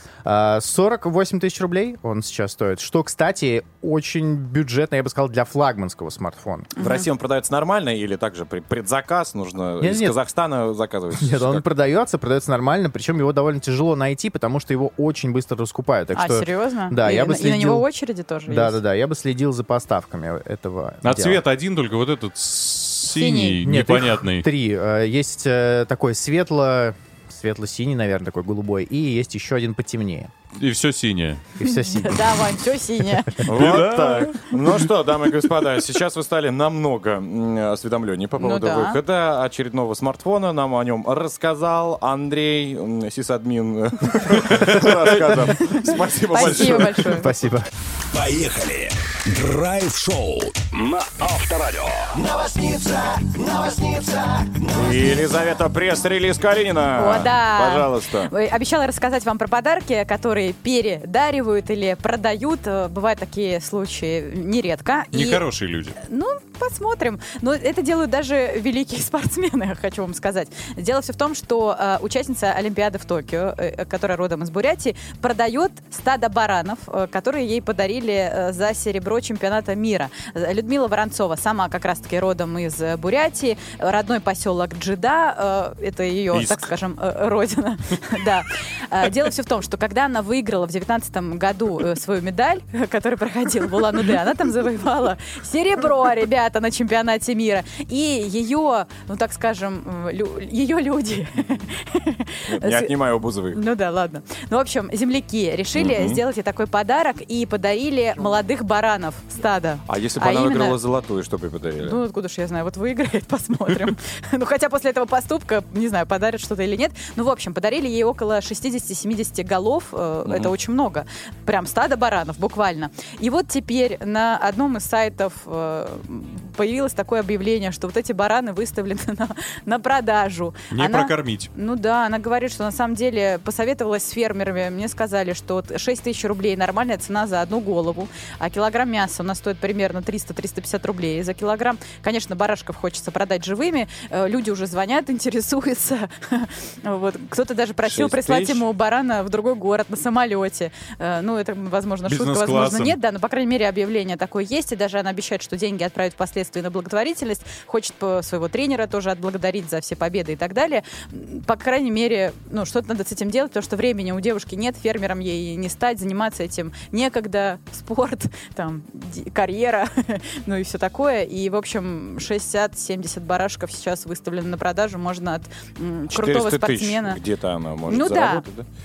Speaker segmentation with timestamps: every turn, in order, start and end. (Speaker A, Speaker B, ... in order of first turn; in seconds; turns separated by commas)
Speaker A: 0.2-6.7, Speaker B: 6.8-7.1, Speaker C: 6.8-11.7, Speaker A: 9.8-10.2, Speaker A: 11.2-17.9, Speaker B: 16.1-18.8, Speaker A: 18.5-21.4, Speaker D: 21.0-24.5, Speaker B: 23.1-23.6, Speaker A: 23.6-30.3, Speaker D: 30.6-31.4, Speaker A: 31.6-32.5, Speaker B: 31.6-33.4, Speaker C: 33.5-47.2, Speaker D: 33.5-34.4, Speaker B: 38.4-39.0, Speaker B: 45.6-47.3, Speaker A: 46.4-47.7, Speaker E: 48.1-54.6, Speaker C: 54.7-58.3, Speaker B: 57.0-65.4, Speaker D: 65.1-66.0, Speaker B: 66.0-102.9, Speaker C: 102.5-103.6, Speaker B: 103.5-110.8, Speaker C: 105.8-106.2, Speaker C: 109.9-112.0, Speaker B: 111.8-177.2, Speaker C: 120.2-120.5, Speaker D: 130.7-131.5, Speaker C: 147.8-148.6, Speaker D: 152.1-153.0, Speaker C: 176.1-178.7, Speaker B: 177.9-178.4